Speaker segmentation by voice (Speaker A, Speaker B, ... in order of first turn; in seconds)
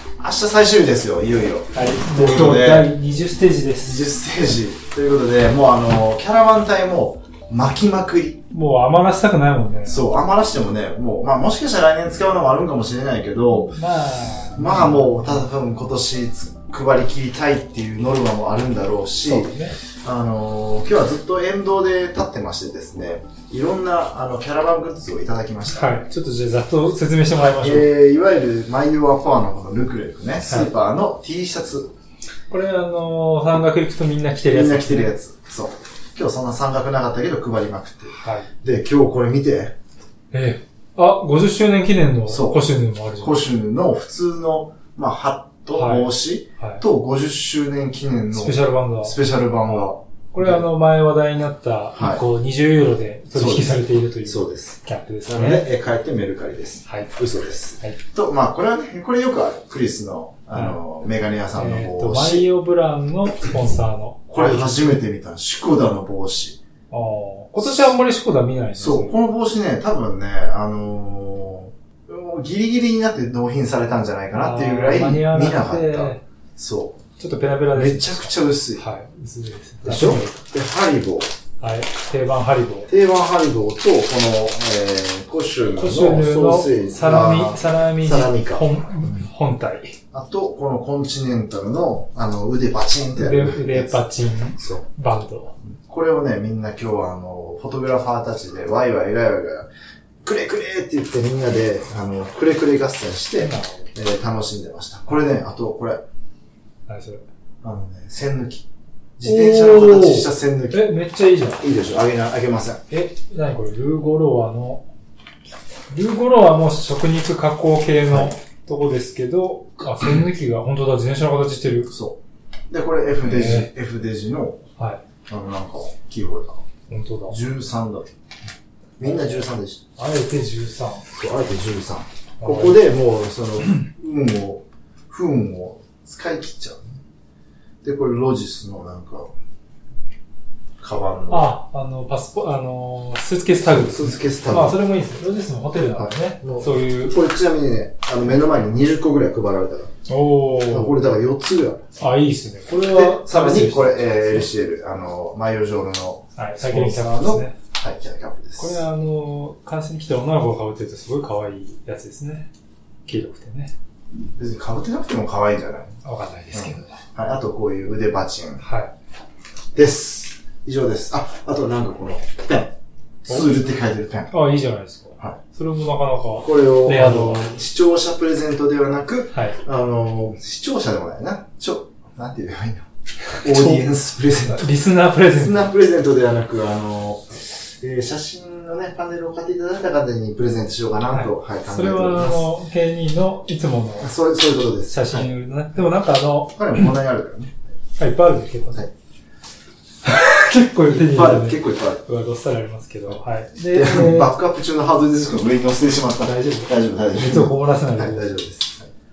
Speaker A: 0.2-2.9, 3.8-8.4, 9.8-13.8, 14.5-25.9, 27.6-31.9, 34.4-39.7, 42.3-42.6, 43.1-50.6, 52.0-52.2, 53.3-54.8, 55.3-62.5, 64.3-66.6, 68.8-77.0, 77.7-78.8, 79.8-81.3, 82.9-89.2, 90.1-94.0, 94.6-94.8, 95.7-99.7, 100.2-106.0, 107.6-110.9, 111.6-112.8, 121.9-122.2, 122.7-124.6, 125.3-126.6, 127.3-128.1, 129.0-129.8, 131.1-137.0, 137.8-139.3, 140.8-141.5, 143.7-144.8, 146.0-149.9, 150.7-151.8, 152.8-158.8, 164.3-166.0, 166.5-168.6, 169.7-174.3, 176.4-182.8, 183.4-184.7, 185.3-192.4, 194.0-195.3, 196.5-197.6, 200.9-202.0, 203.7-208.9
Speaker B: 1.7-4.1, 8.5-10.0, 13.5-15.4, 19.2-19.8, 25.7-27.9, 32.5-35.1, 38.2-38.5, 40.3-43.4, 45.7-46.8, 48.3-49.2, 49.7-55.7, 56.8-57.1, 61.5-65.0, 66.9-69.1, 74.3-76.2, 77.2-80.4, 81.6-82.9, 85.7-90.0, 93.2-95.5, 103.4-103.9, 106.9-107.2, 109.2-111.6, 112.9-114.9, 115.9-121.9, 123.2-123.7, 126.9-127.4, 129.0-129.4, 130.0-131.1, 132.4-132.8, 141.3-147.2, 150.1-151.0, 152.0-154.5, 156.3-157.6, 158.6-162.5, 163.1-163.7, 166.0-167.0, 168.6-168.9, 174.3-177.5, 183.3-185.7, 191.1-194.1, 194.9-196.9, 198.0-198.8, 200.0-204.3, 206.2-208.3